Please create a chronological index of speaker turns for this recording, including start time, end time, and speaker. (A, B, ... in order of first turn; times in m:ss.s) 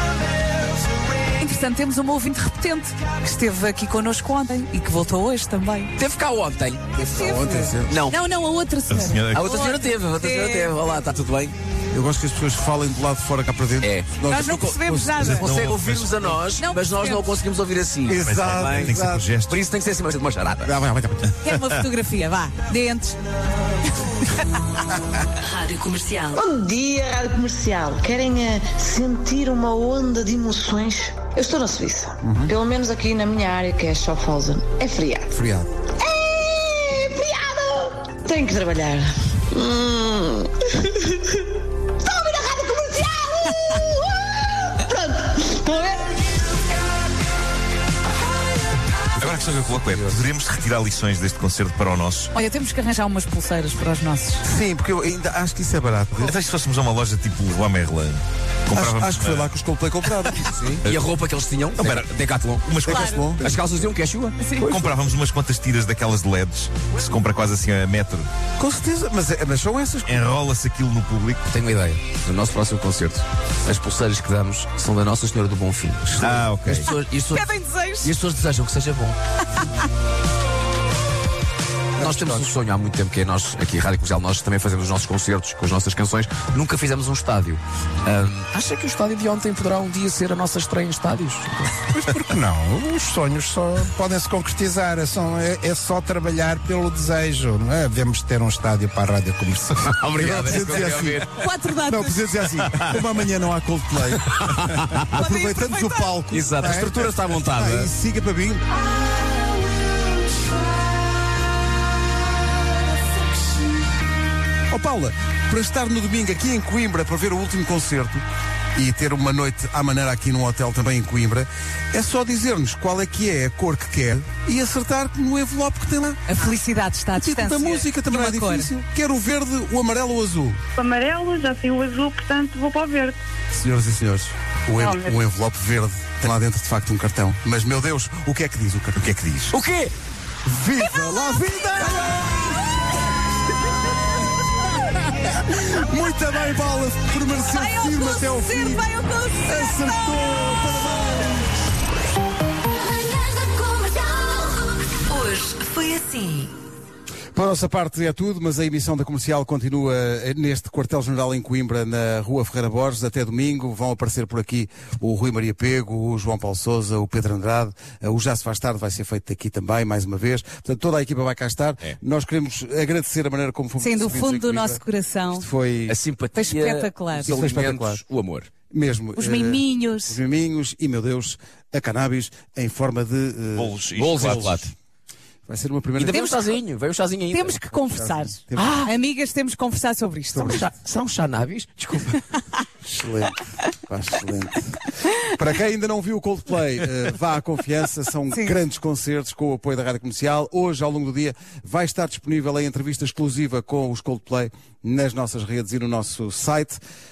0:01.4-0:05.9 A
0:06.0-0:07.2 B
0:07.0-0:10.7 A
0:07.2-0:08.0 C
0:07.9-0:08.2 B
0:08.9-0:09.5 D
0:09.3-0:11.6 B
0:11.9-0:15.5 C
0:13.8-0:20.8 B
0:14.2-0:15.5 A
0:15.4-0:16.3 D
0:16.6-0:17.2 A
0:18.1-0:19.2 C
0:18.2-0:19.6 D
0:20.6-0:21.3 C
0:21.4-0:23.2 A
0:23.9-0:24.5 A
0:25.5-0:26.4 E
0:26.3-0:35.4 F
0:32.2-0:32.5 C
0:35.3-0:35.7 C
0:36.0-0:46.4 F
0:49.2-0:52.3 D
0:49.6-0:50.2 C
0:52.3-0:54.4 A
0:54.4-0:56.3 C
0:56.2-0:59.5 D
0:58.7-1:00.8 C
1:00.3-1:01.0 D
1:00.8-1:02.6 B
1:01.8-1:02.1 D
1:02.6-1:03.5 D
1:02.8-1:03.5 C
1:02.9-1:03.2 A
1:03.4-1:04.8 B
1:04.4-1:04.7 A
1:04.6-1:08.3 D
1:08.6-1:10.3 C
1:10.1-1:11.4 D
1:11.5-1:19.2 B
1:16.2-1:16.9 D
1:17.3-1:18.1 A
1:22.0-1:32.0 B
1:22.0-1:22.4 C
1:32.1-1:39.8 G
1:39.8-1:41.3 B
1:40.2-1:41.3 C
1:41.3-1:42.2 A
1:41.8-1:48.6 C
1:44.2-1:45.1 B
1:45.1-1:46.1 A
1:46.3-1:47.9 B
1:54.7-2:06.2 C
2:06.3-2:08.7 A
2:07.1-2:10.6 C
2:10.8-2:13.2 H
2:13.5-2:19.1 C
2:19.0-2:19.5 D
2:19.5-2:19.9 B
2:20.4-2:22.6 C
2:25.1-2:28.9 C
2:27.4-2:30.4 A
2:29.4-2:31.5 C
2:33.4-2:34.3 E
2:35.1-2:36.5 E
2:37.3-2:54.8 C
2:53.8-2:55.4 A
2:55.3-2:56.0 C
2:55.9-2:58.5 B
2:56.3-2:57.4 A
2:57.2-2:58.0 C
2:58.7-3:04.7 C
2:59.2-3:00.2 A
3:03.6-3:04.5 D
3:03.9-3:04.7 B
3:05.4-3:06.3 C
3:06.0-3:07.6 B
3:06.1-3:06.6 A
3:07.3-3:10.7 A
3:07.7-3:08.7 C
3:08.6-3:08.9 B
3:10.3-3:10.7 C
3:10.4-3:12.2 B
3:12.8-3:26.8 C
3:18.3-3:18.6 A